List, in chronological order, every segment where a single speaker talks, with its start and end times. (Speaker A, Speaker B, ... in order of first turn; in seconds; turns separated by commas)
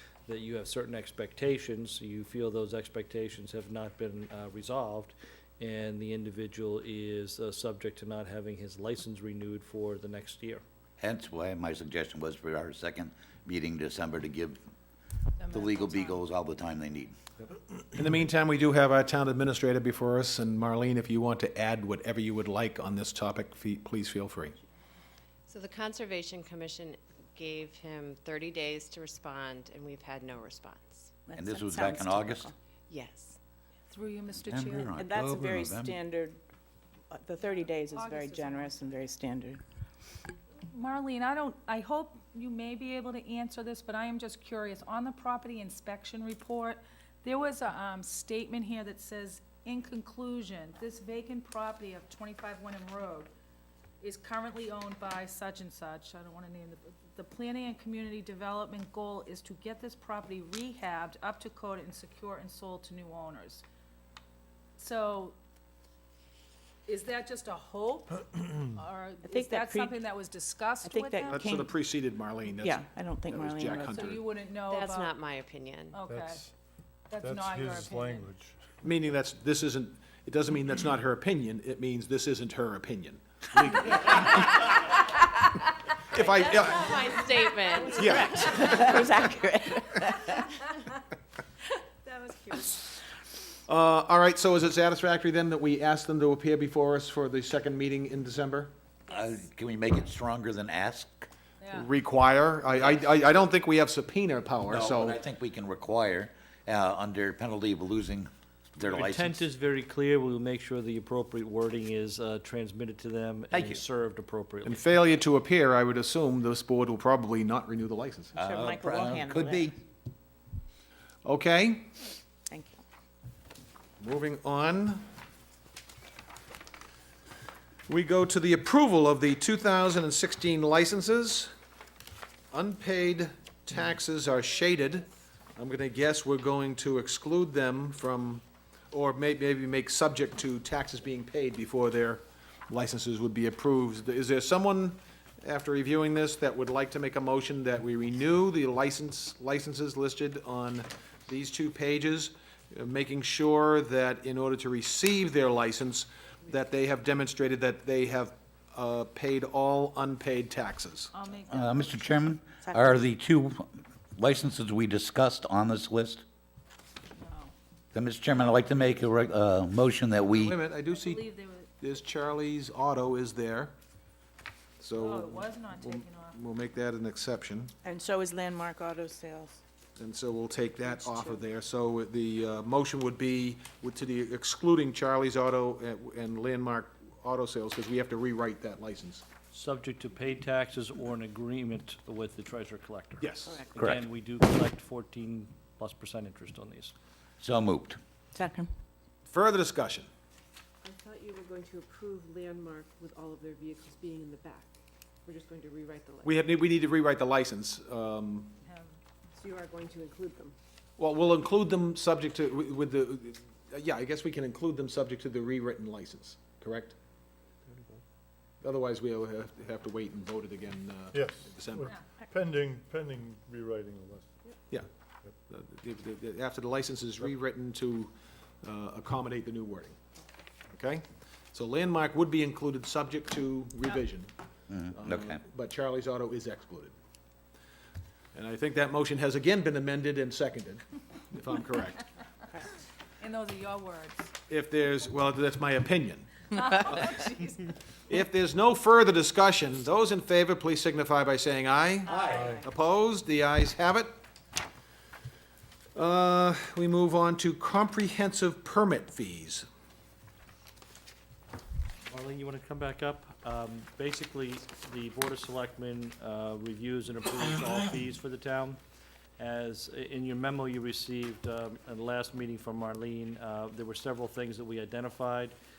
Speaker A: 0.3-10.6, Speaker B: 11.0-14.6, Speaker C: 15.4-16.2, Speaker B: 15.5-17.2, Speaker D: 17.9-24.6, Speaker E: 25.5-31.1, Speaker F: 31.3-32.5, Speaker B: 31.4-32.5, Speaker E: 32.9-33.4, Speaker C: 33.9-34.9, Speaker B: 34.5-36.0, Speaker F: 35.0-36.4, Speaker F: 37.1-39.6, Speaker C: 37.4-39.0, Speaker C: 40.7-53.3, Speaker C: 54.0-63.6, Speaker C: 64.8-65.4, Speaker C: 66.9-71.6, Speaker F: 69.2-70.0, Speaker F: 70.8-71.8, Speaker D: 71.3-74.2, Speaker F: 72.5-74.0, Speaker C: 73.8-75.2, Speaker E: 74.7-76.0, Speaker C: 75.9-76.5, Speaker G: 76.0-76.5, Speaker C: 77.1-78.3, Speaker G: 77.2-78.8, Speaker D: 78.8-84.7, Speaker D: 86.1-87.1, Speaker E: 86.1-88.9, Speaker C: 87.8-88.7, Speaker D: 87.8-88.9, Speaker F: 88.0-90.4, Speaker C: 92.0-93.0, Speaker D: 93.7-98.7, Speaker B: 99.1-101.3, Speaker C: 101.6-101.9, Speaker D: 101.7-105.2, Speaker B: 104.7-109.4, Speaker A: 108.8-114.8, Speaker B: 113.5-113.8, Speaker D: 114.6-118.4, Speaker B: 118.4-119.7, Speaker F: 118.4-119.7, Speaker D: 121.2-121.9, Speaker F: 122.5-122.8, Speaker D: 124.0-125.0, Speaker D: 127.9-131.5, Speaker D: 132.5-161.1, Speaker C: 161.1-162.0, Speaker B: 161.5-166.2, Speaker F: 162.6-163.0, Speaker C: 167.2-167.5, Speaker B: 167.9-170.6, Speaker D: 170.2-171.2, Speaker C: 170.8-171.8, Speaker D: 171.8-173.7, Speaker D: 174.8-177.7, Speaker C: 174.9-176.4, Speaker F: 177.8-179.6, Speaker D: 180.0-189.2, Speaker F: 181.0-181.3, Speaker A: 189.5-196.9, Speaker D: 193.2-193.6, Speaker B: 193.8-194.0, Speaker B: 197.4-198.0, Speaker F: 198.3-198.7, Speaker D: 199.2-200.1, Speaker H: 200.8-204.7, Speaker H: 205.2-206.4, Speaker D: 206.2-208.5, Speaker C: 208.6-209.0, Speaker H: 209.4-210.5, Speaker D: 211.0-216.9, Speaker D: 218.6-221.9, Speaker G: 221.1-224.4, Speaker D: 225.5-230.0, Speaker D: 230.7-234.3, Speaker B: 234.7-235.4, Speaker D: 234.9-236.9, Speaker D: 238.3-242.0, Speaker C: 243.2-244.3, Speaker D: 244.5-247.4, Speaker D: 248.1-254.1, Speaker G: 252.3-252.6, Speaker D: 255.9-259.6, Speaker A: 262.1-268.8, Speaker A: 269.4-275.5